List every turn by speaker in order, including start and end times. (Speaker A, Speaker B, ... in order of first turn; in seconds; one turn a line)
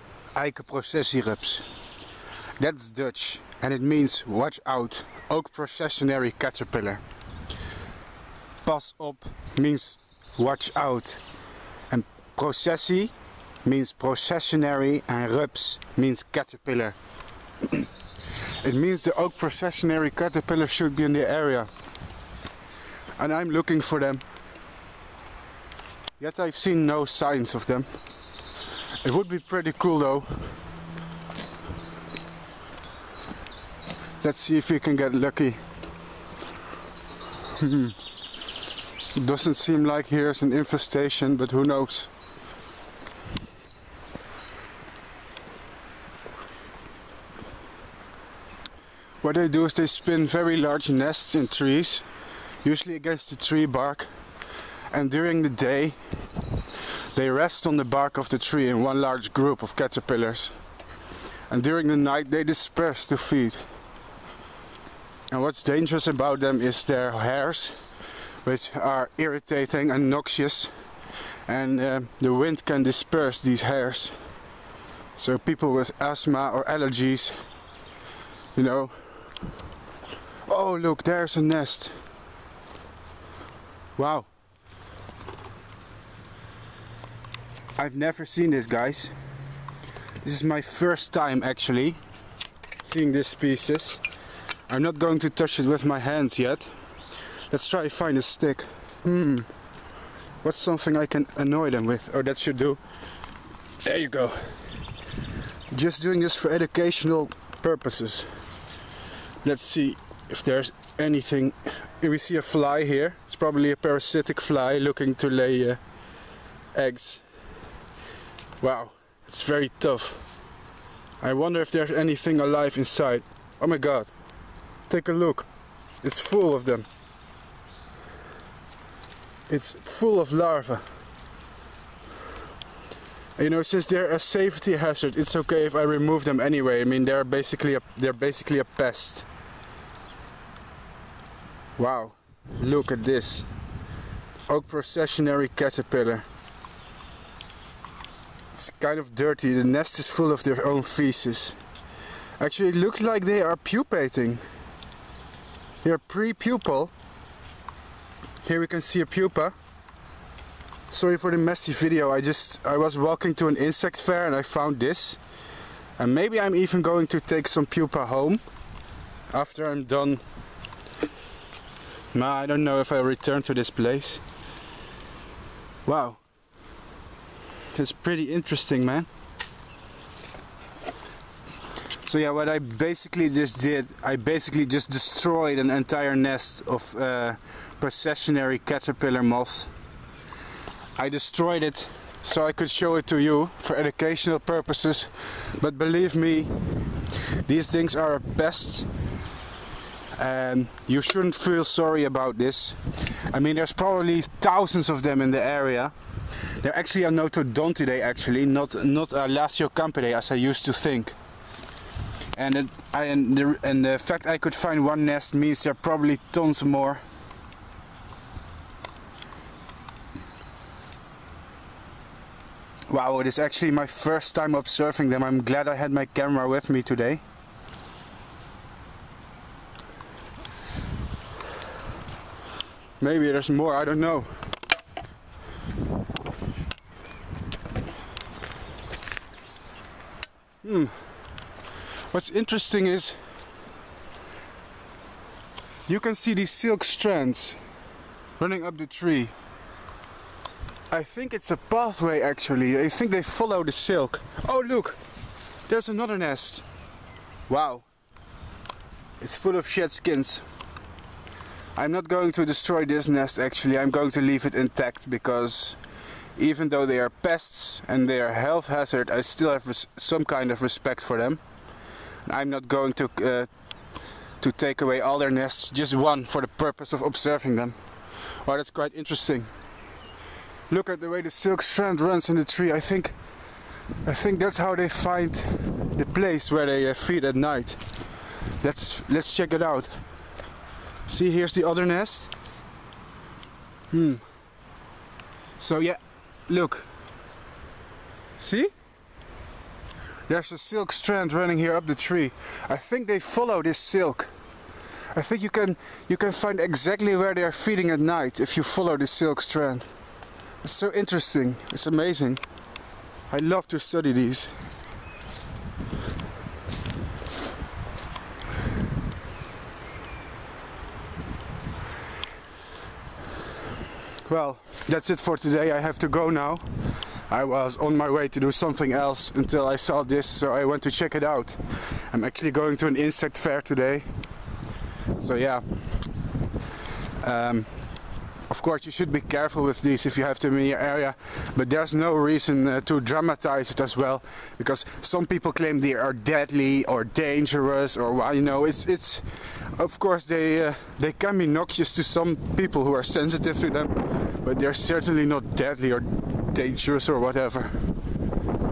Speaker A: 0.3-1.7
Speaker A: 2.6-7.0
Speaker A: 8.6-11.2
Speaker A: 11.9-13.1
Speaker A: 13.6-16.9
Speaker A: 18.6-21.7
Speaker A: 23.2-24.2
Speaker A: 26.2-27.9
Speaker A: 29.0-30.5
Speaker A: 34.2-35.6
Speaker A: 37.5-37.9
Speaker A: 39.1-42.1
Speaker A: 49.2-52.1
Speaker A: 52.6-54.1
Speaker A: 54.9-56.0
Speaker A: 57.1-60.5
Speaker A: 61.5-63.6
Speaker A: 65.3-67.8
Speaker A: 68.4-70.7
Speaker A: 71.5-74.2
Speaker A: 75.2-77.4
Speaker A: 78.5-79.4
Speaker A: 80.5-81.9
Speaker A: 84.0-84.3
Speaker A: 87.8-89.1
Speaker A: 90.2-92.0
Speaker A: 92.8-94.0
Speaker A: 94.7-96.7
Speaker A: 97.5-99.5
Speaker A: 100.4-102.8
Speaker A: 103.8-104.6
Speaker A: 105.7-108.3
Speaker A: 109.4-115.8
Speaker A: 116.7-117.2
Speaker A: 118.6-120.2
Speaker A: 121.2-124.1
Speaker A: 124.9-125.5
Speaker A: 126.0-126.9
Speaker A: 129.5-130.8
Speaker A: 133.4-139.3
Speaker A: 141.8-143.5
Speaker A: 144.5-146.2
Speaker A: 148.5-151.6
Speaker A: 152.4-154.4
Speaker A: 155.8-156.9
Speaker A: 158.4-159.5
Speaker A: 160.9-165.2
Speaker A: 166.0-168.4
Speaker A: 169.3-170.2
Speaker A: 172.1-174.2
Speaker A: 175.8-176.2
Speaker A: 177.7-179.1
Speaker A: 182.0-189.7
Speaker A: 190.9-198.9
Speaker A: 200.1-205.9
Speaker A: 206.6-211.2
Speaker A: 212.3-217.0
Speaker A: 222.9-227.2
Speaker A: 233.0-234.3
Speaker A: 240.6-241.0
Speaker A: 242.1-243.2
Speaker A: 245.9-247.6
Speaker A: 248.4-249.3
Speaker A: 250.9-255.0
Speaker A: 255.7-256.6
Speaker A: 257.5-257.9
Speaker A: 259.2-260.4
Speaker A: 261.7-265.8
Speaker A: 266.4-271.4
Speaker A: 272.2-273.5
Speaker A: 274.4-279.5
Speaker A: 280.7-283.1
Speaker A: 284.0-287.8
Speaker A: 288.6-290.0
Speaker A: 291.1-292.3
Speaker A: 293.9-294.2
Speaker A: 295.6-296.9
Speaker A: 298.4-298.7
Speaker A: 300.3-304.3
Speaker A: 305.1-309.9
Speaker A: 310.6-312.4
Speaker A: 313.3-314.5
Speaker A: 324.2-334.1
Speaker A: 335.2-335.7
Speaker A: 337.2-337.7
Speaker A: 338.5-357.9